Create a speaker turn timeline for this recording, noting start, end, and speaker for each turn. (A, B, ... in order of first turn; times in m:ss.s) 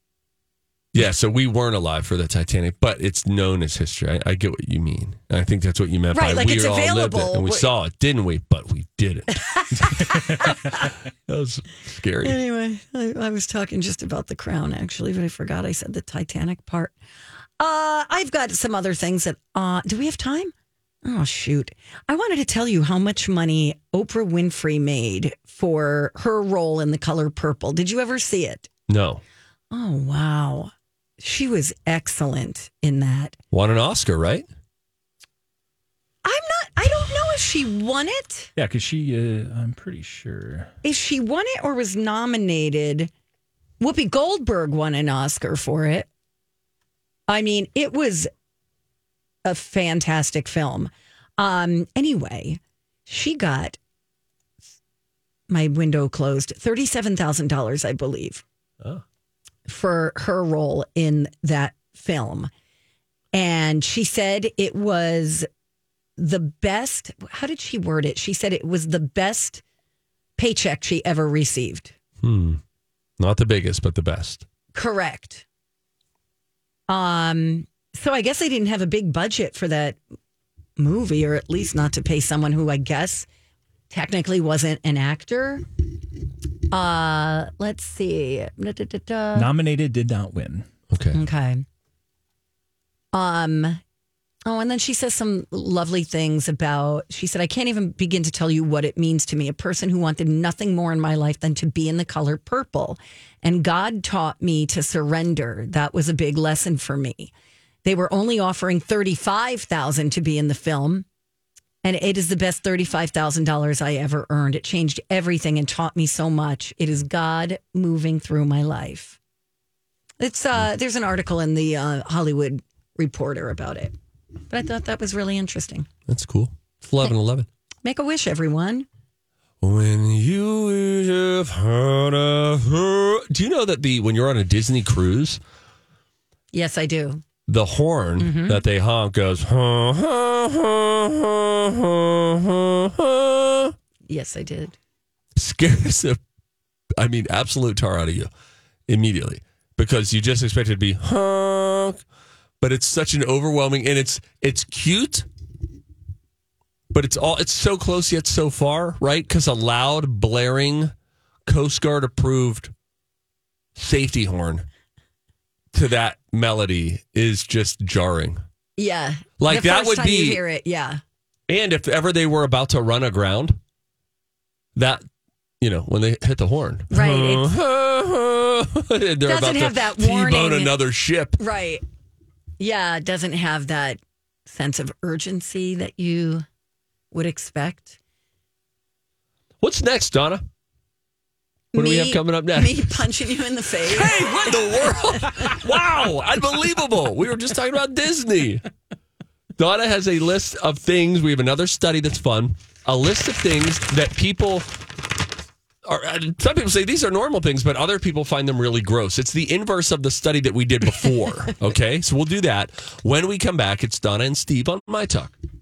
0:00.9-0:10.4 A
0:06.1-0:07.7 B
0:09.5-0:10.9 B
0:11.3-0:12.4 A
0:12.2-0:16.9 B
0:17.6-0:20.5 B
0:21.0-0:28.7 B
0:28.9-0:29.2 A
0:29.7-0:33.4 B
0:33.5-0:34.4 A
0:36.2-0:38.5 B
0:38.6-0:40.7 C
0:40.8-0:43.1 B
0:43.8-0:46.1 B
0:47.3-0:48.3 B
0:49.4-0:53.8 B
0:55.5-0:58.4 B
0:59.7-1:02.5 B
1:03.3-1:05.5 B
1:06.2-1:09.6 B
1:10.4-1:12.0 B
1:12.2-1:12.6 A
1:13.2-1:14.5 A
1:14.7-1:15.4 B
1:16.9-1:20.0 B
1:20.8-1:23.3 B
1:23.9-1:25.6 B
1:26.7-1:29.5 B
1:29.4-1:30.7 C
1:30.9-1:31.2 A
1:31.1-1:31.6 B
1:33.1-1:33.8 B
1:34.5-1:47.3 B
1:47.8-1:51.1 B
1:51.8-1:59.2 B
2:00.2-2:03.9 B
2:04.5-2:05.9 B
2:06.1-2:07.5 A
2:07.8-2:08.9 B
2:09.6-2:15.4 A
2:16.5-2:17.2 B
2:17.5-2:23.8 A
2:18.2-2:18.6 B
2:24.1-2:24.8 B
2:25.4-2:26.2 A
2:27.0-2:28.3 A
2:28.9-2:32.0 A
2:32.6-2:35.3 A
2:36.9-2:40.9 A
2:41.5-2:42.7 A
2:43.8-2:44.7 A
2:45.7-2:48.4 A
2:48.8-2:51.0 B
2:49.4-2:50.4 A
2:51.5-2:53.6 A
2:54.8-2:55.0 A
2:55.6-3:01.4 A
2:56.9-2:57.5 B
2:59.3-3:00.7 B
3:01.4-3:01.8 B
3:02.6-3:06.4 B
3:07.1-3:08.0 B
3:09.6-3:10.4 A
3:11.7-3:14.5 B
3:11.8-3:13.0 A
3:13.8-3:18.7 A
3:19.6-3:24.7 A
3:25.8-3:35.4 A